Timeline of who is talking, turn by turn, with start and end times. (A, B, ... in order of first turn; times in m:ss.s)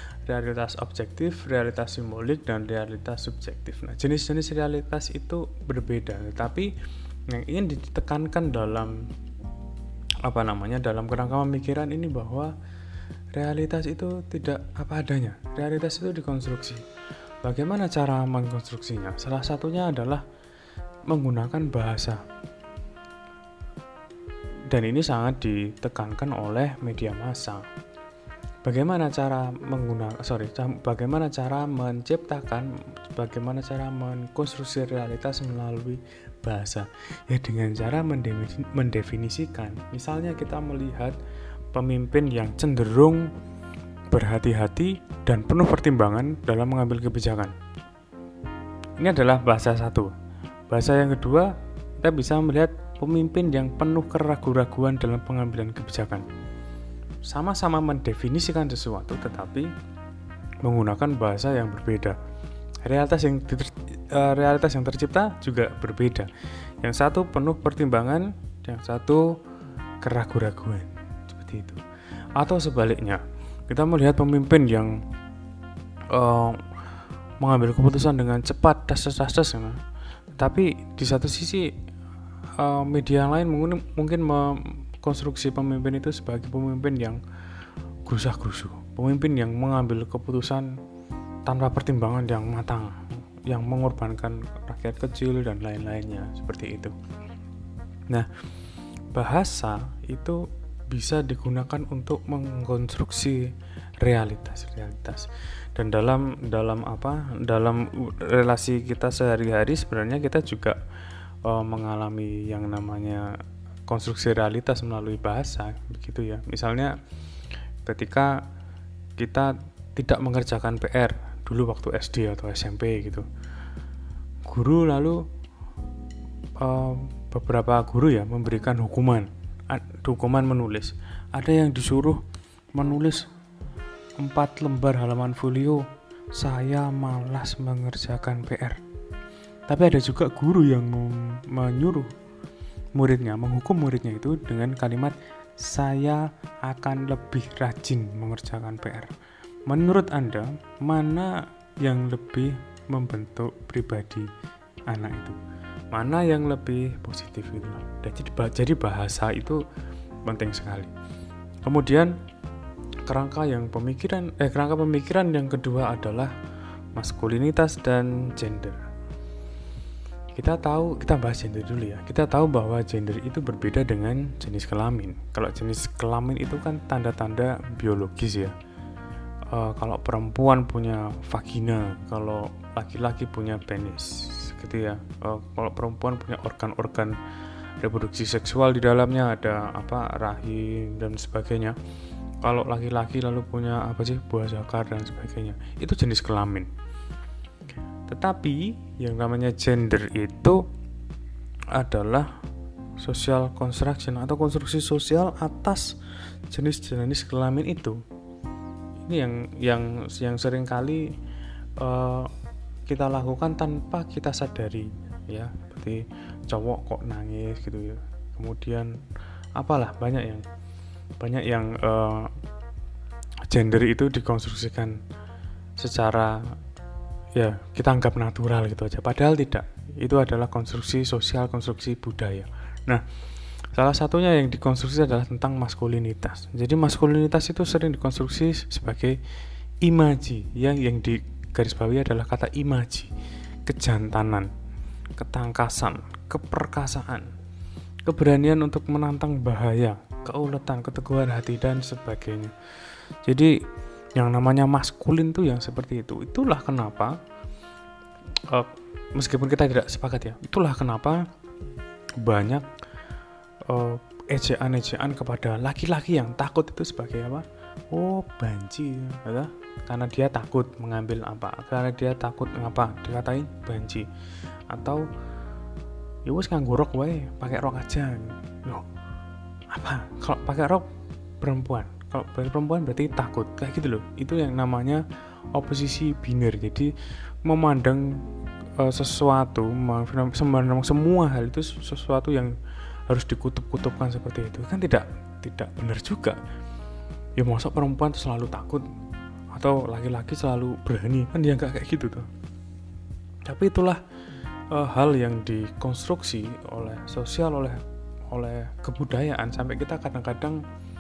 0:00.2-0:06.7 A
0:07.3-0:09.1 A
0:10.2-0:12.5 A
0:13.3-0:16.8 A
0:17.4-0:20.2 A
0:21.1-0:22.2 A
0:24.7-0:27.6 A
0:28.6-0:41.2 A
0:41.7-0:43.3 A
0:44.1-0:47.5 A
0:49.0-0:50.1 A
0:50.7-0:56.3 A
0:57.2-0:59.7 A
1:00.6-1:02.2 A
1:02.8-1:06.3 A
1:06.8-1:09.4 A
1:10.0-1:11.8 A
1:12.4-1:15.0 A
1:16.1-1:16.7 A
1:17.4-1:19.8 A
1:20.4-1:21.7 A
1:22.6-1:27.2 A
1:28.1-1:30.7 A
1:31.5-1:37.0 A
1:39.1-1:50.8 A
1:51.4-1:53.4 A
1:53.9-1:57.0 A
1:57.8-1:58.4 A
1:59.2-2:03.3 A
2:04.5-2:05.2 A
2:06.6-2:12.2 A
2:12.7-2:13.3 A
2:14.2-2:18.8 A
2:19.7-2:22.1 A
2:23.0-2:29.1 A
2:29.7-2:34.3 A
2:34.9-2:35.4 A
2:35.9-2:39.6 A
2:40.2-2:40.9 A
2:41.6-2:42.1 A
2:43.1-2:46.3 A
2:47.0-2:48.8 A
2:50.4-2:58.5 A
2:59.5-3:07.2 A
3:07.8-3:11.8 A
3:12.4-3:16.7 A
3:18.1-3:20.6 A
3:21.7-3:22.3 A
3:23.0-3:26.0 A
3:26.5-3:28.0 A
3:29.1-3:31.1 A
3:31.8-3:32.3 A
3:32.9-3:39.0 A
3:39.6-3:40.4 A
3:41.2-3:42.3 A
3:43.5-3:45.0 A
3:45.8-3:46.6 A
3:47.4-3:53.0 A
3:53.7-3:59.2 A
3:59.8-4:03.1 A
4:03.7-4:04.5 A
4:05.2-4:07.3 A
4:08.1-4:12.5 A
4:13.2-4:13.6 A
4:14.2-4:17.2 A
4:18.5-4:21.2 A
4:22.2-4:22.7 A
4:23.7-4:34.1 A
4:34.7-4:35.1 A
4:36.3-4:38.9 A
4:39.7-4:40.9 A
4:41.4-4:46.9 A
4:47.4-4:48.2 A
4:48.8-4:52.5 A
4:53.1-4:56.4 A
4:57.4-4:58.8 A
4:59.5-5:02.3 A
5:03.5-5:04.0 A
5:04.7-5:07.8 A
5:08.3-5:10.6 A